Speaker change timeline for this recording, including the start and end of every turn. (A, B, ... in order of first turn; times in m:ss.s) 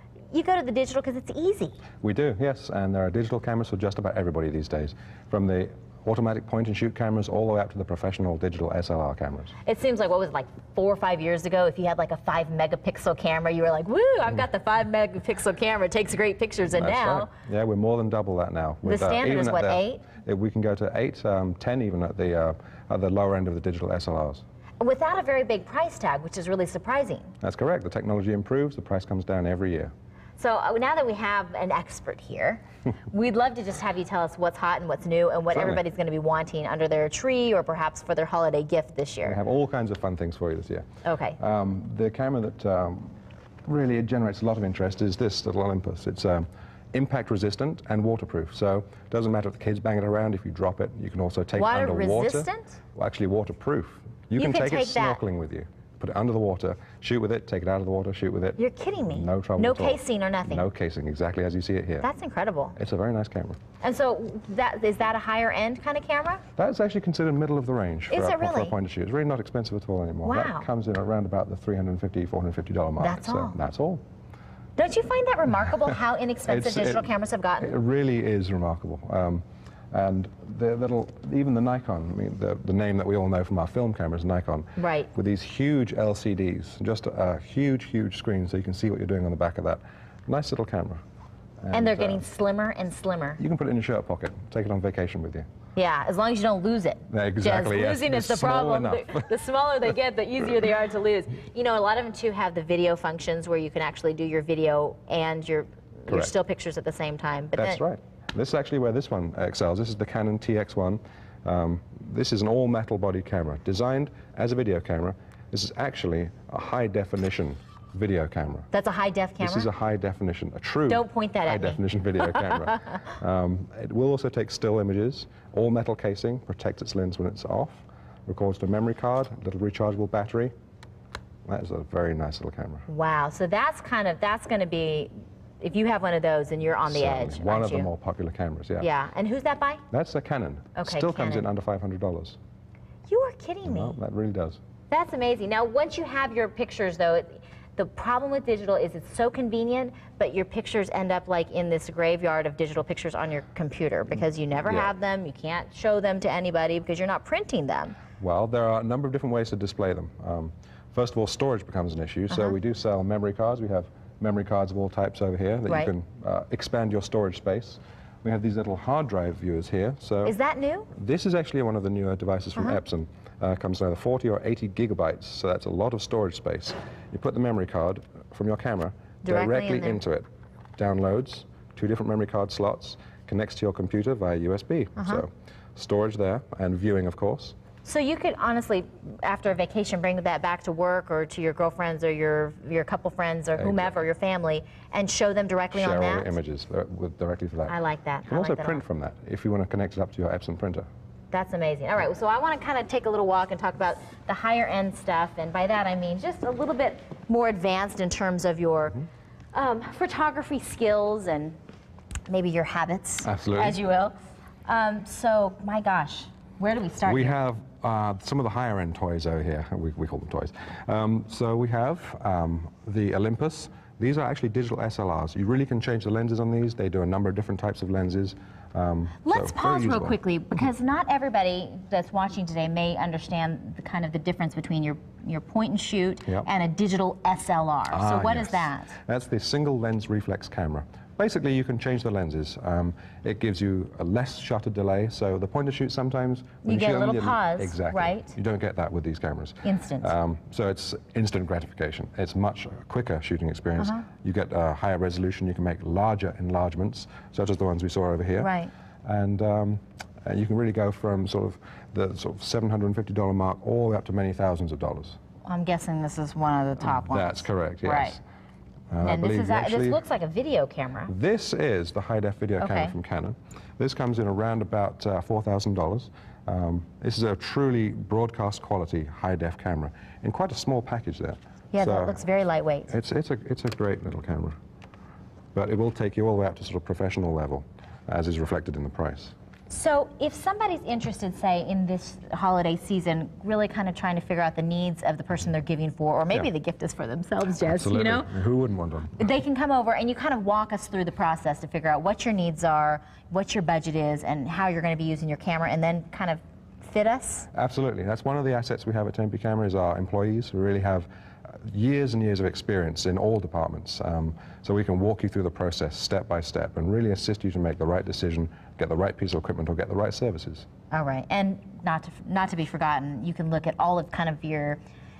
0:00.3-0:01.8 A
0:02.0-0:09.5 B
0:09.6-0:17.3 A
0:16.7-0:24.4 B
0:18.8-0:20.0 A
0:24.8-0:27.3 A
0:27.4-0:29.9 B
0:30.4-0:39.4 A
0:35.5-0:35.8 B
0:39.2-0:40.8 B
0:41.0-0:41.4 A
0:41.4-0:58.6 B
0:51.6-0:52.8 A
0:54.4-0:55.2 A
0:58.6-1:00.6 A
0:59.1-1:02.1 B
1:02.0-1:02.8 A
1:02.8-1:03.6 B
1:03.8-1:06.4 A
1:06.6-1:14.0 B
1:08.1-1:08.8 A
1:10.2-1:10.6 A
1:13.0-1:13.6 A
1:14.8-1:17.7 A
1:16.5-1:17.1 B
1:17.6-1:31.0 B
1:24.8-1:25.1 A
1:31.6-1:32.2 B
1:31.7-1:33.4 A
1:33.4-1:35.5 B
1:35.7-1:47.8 A
1:37.1-1:39.3 B
1:46.1-1:46.3 B
1:47.5-1:58.7 B
1:58.7-1:59.7 A
1:59.4-2:10.5 B
2:00.9-2:02.7 A
2:11.4-2:12.9 B
2:12.9-2:17.9 A
2:16.9-2:18.9 B
2:18.8-2:19.8 A
2:19.9-2:22.4 B
2:20.7-2:21.5 A
2:23.1-2:24.0 A
2:23.6-2:24.6 B
2:24.9-2:38.0 A
2:34.6-2:34.9 B
2:38.2-2:50.3 B
2:42.3-2:42.5 A
2:50.2-2:50.9 A
2:50.9-3:00.2 B
2:59.2-3:00.0 A
3:00.8-3:07.6 B
3:05.0-3:05.2 A
3:07.8-3:16.3 A
3:13.6-3:13.9 B
3:15.7-3:17.7 B
3:17.7-3:18.8 A
3:18.3-3:20.9 B
3:21.3-3:31.6 A
3:32.3-3:34.1 A
3:33.2-3:33.8 B
3:34.6-3:37.4 A
3:37.0-3:50.2 B
3:49.2-3:58.9 A
3:57.9-4:25.2 B
4:06.6-4:08.4 A
4:09.6-4:10.1 A
4:13.8-4:14.0 A
4:18.4-4:18.7 A
4:25.4-4:28.2 A
4:26.8-4:28.2 B
4:28.9-4:30.0 B
4:29.0-4:31.1 A
4:31.1-4:42.2 B
4:32.6-4:32.9 A
4:41.7-4:42.9 A
4:42.9-4:44.6 B
4:45.5-4:49.3 B
4:49.7-4:58.3 A
4:57.6-4:59.2 B
4:59.2-5:07.5 A
5:07.5-5:20.6 B
5:20.9-5:24.8 A